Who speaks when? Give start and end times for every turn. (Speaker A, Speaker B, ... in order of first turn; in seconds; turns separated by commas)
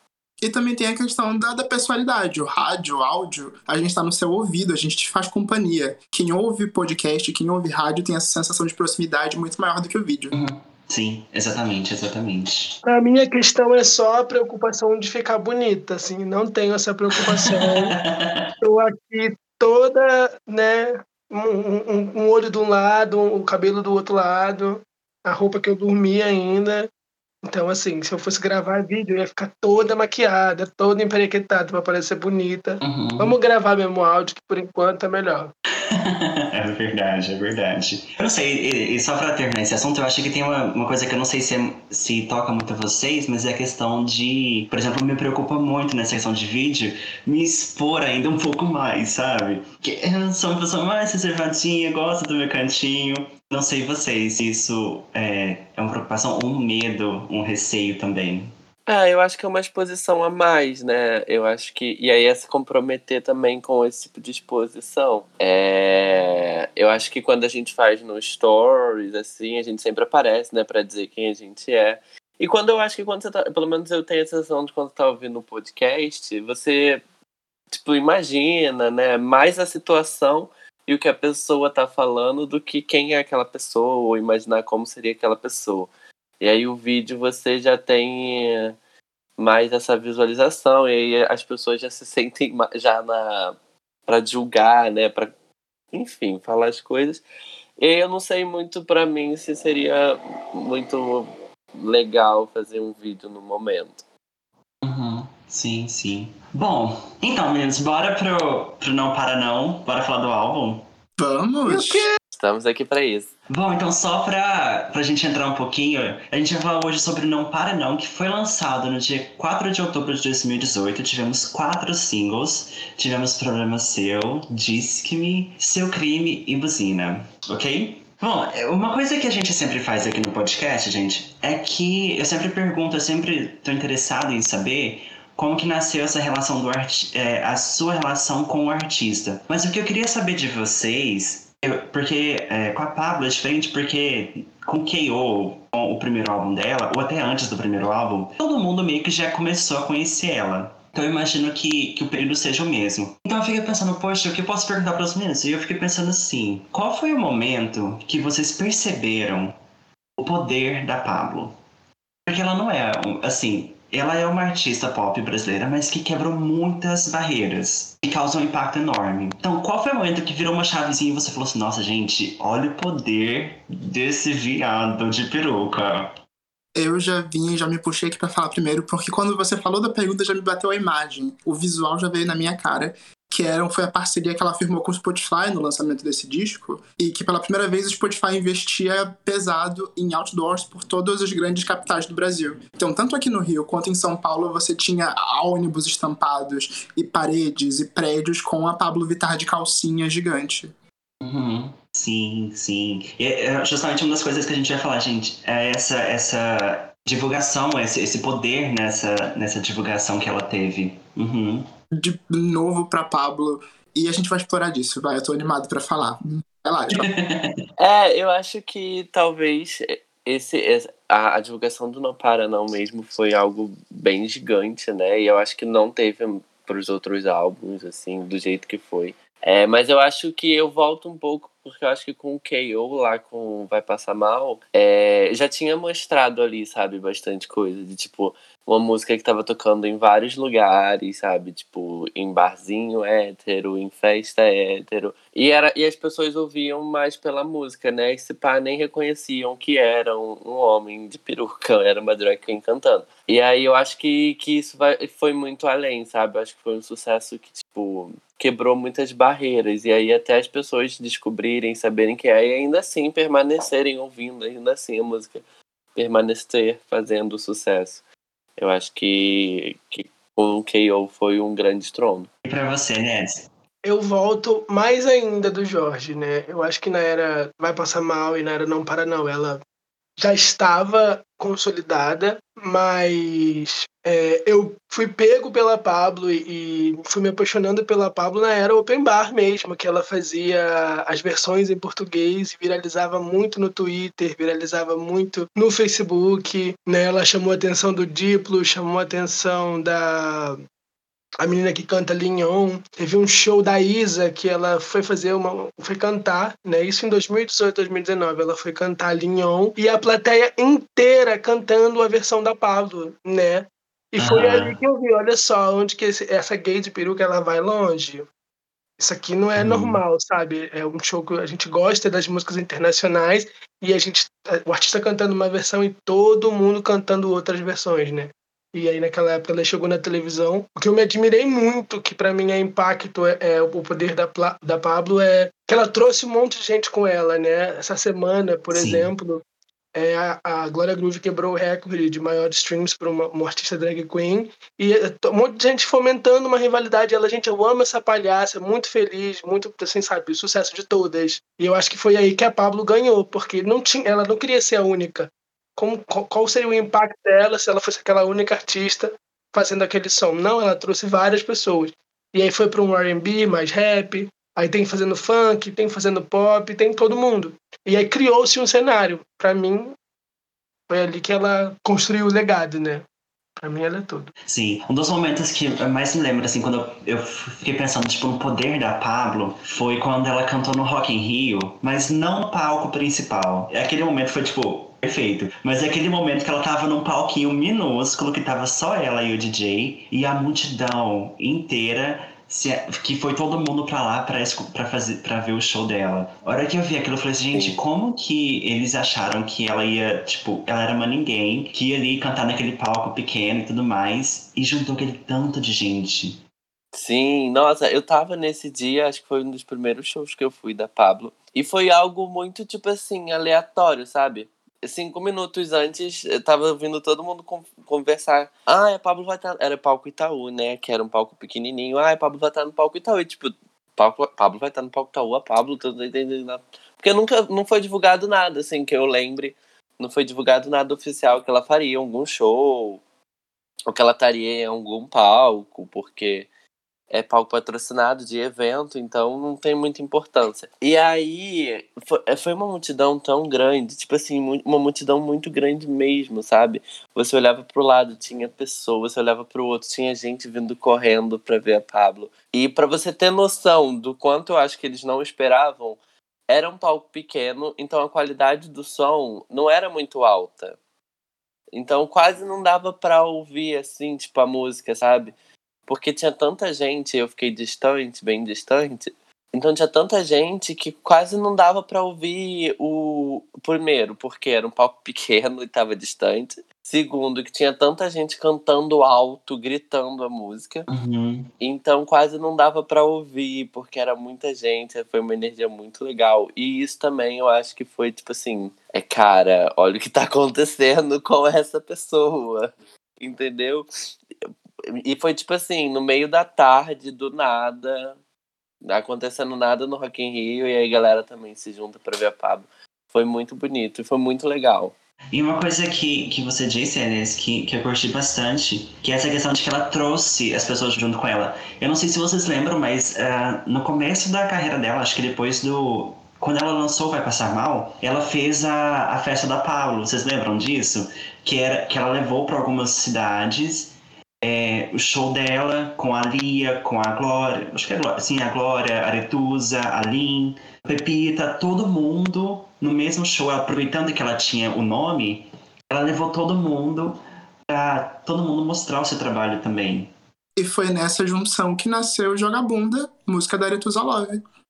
Speaker A: 0.4-10.3, Speaker B: 10.3-12.8, Speaker C: 12.8-17.9, Speaker B: 17.2-18.5, Speaker C: 18.6-26.9, Speaker C: 27.4-35.5, Speaker B: 32.8-33.4, Speaker B: 35.9-58.5, Speaker D: 58.9-77.0, Speaker D: 77.7-88.7, Speaker D: 89.4-93.5, Speaker D: 94.1-95.3, Speaker D: 95.9-97.2, Speaker D: 97.8-104.0, Speaker B: 104.8-110.8, Speaker A: 111.2-112.1, Speaker B: 111.7-112.0, Speaker D: 112.3-113.3, Speaker B: 113.5-159.6, Speaker B: 160.2-161.6, Speaker B: 162.2-176.1, Speaker A: 176.8-200.7, Speaker B: 201.2-211.7, Speaker A: 211.9-217.1, Speaker B: 216.9-217.6, Speaker D: 217.8-265.4, Speaker D: 265.9-268.0, Speaker D: 268.6-272.3, Speaker B: 272.4-273.5, Speaker C: 273.8-279.6, Speaker C: 280.2-300.6, Speaker C: 301.4-318.3, Speaker B: 314.2-314.8, Speaker C: 319.0-339.4, Speaker B: 319.6-320.0, Speaker B: 338.7-339.1, Speaker C: 339.9-369.9, Speaker C: 370.9-373.0, Speaker C: 373.6-374.3, Speaker B: 374.5-406.4, Speaker D: 397.5-397.8, Speaker D: 406.9-433.0, Speaker D: 433.9-436.5, Speaker D: 437.1-460.8, Speaker D: 461.7-465.3, Speaker D: 465.9-480.9, Speaker B: 480.9-481.5, Speaker D: 481.6-493.9, Speaker D: 494.4-498.2, Speaker D: 498.8-504.9, Speaker B: 505.3-540.1, Speaker A: 540.5-544.4